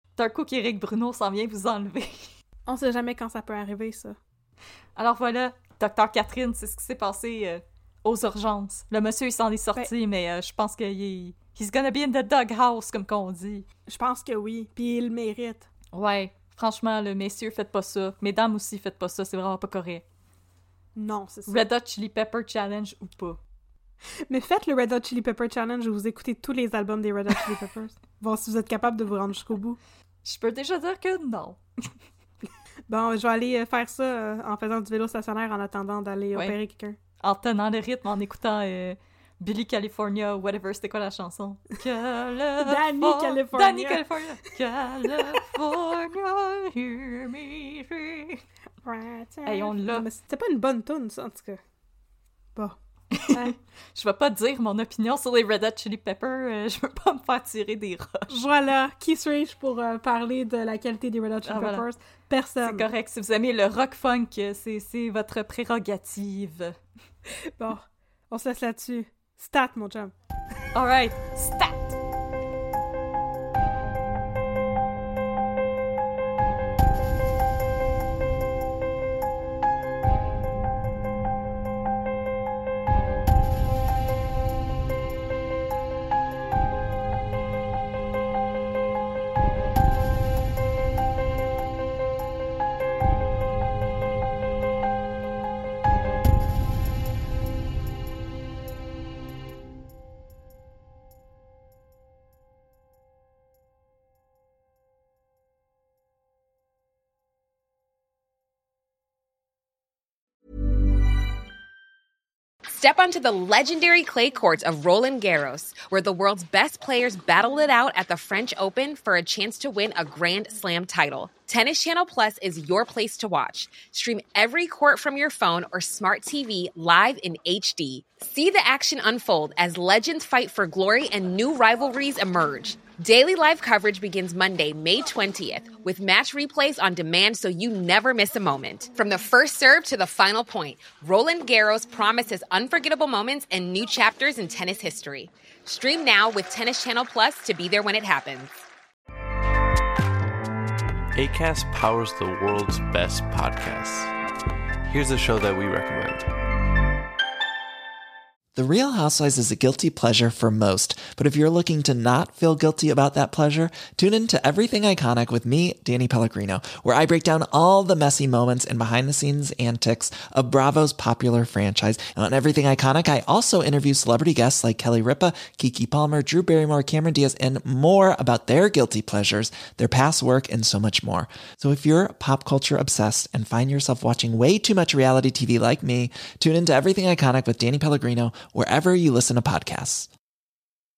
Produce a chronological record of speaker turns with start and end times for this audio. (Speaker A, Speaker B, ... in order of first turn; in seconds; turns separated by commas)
Speaker A: 0.1-2.3, Speaker B: 2.7-4.2, Speaker A: 5.0-13.7, Speaker B: 13.9-15.7, Speaker A: 15.9-20.0, Speaker B: 20.9-21.6, Speaker A: 21.5-23.4, Speaker B: 24.3-29.8, Speaker A: 30.2-31.9, Speaker B: 32.9-37.0, Speaker A: 37.2-48.4, Speaker B: 42.6-44.0, Speaker B: 48.8-51.6, Speaker A: 49.4-50.1, Speaker A: 53.1-58.4, Speaker B: 53.3-53.5, Speaker B: 58.3-62.9, Speaker A: 61.4-61.9, Speaker A: 62.6-66.8, Speaker B: 67.6-70.1, Speaker A: 70.7-71.3, Speaker B: 71.3-71.9, Speaker C: 112.7-148.5, Speaker D: 151.1-154.1, Speaker D: 154.9-156.3, Speaker E: 158.5-190.1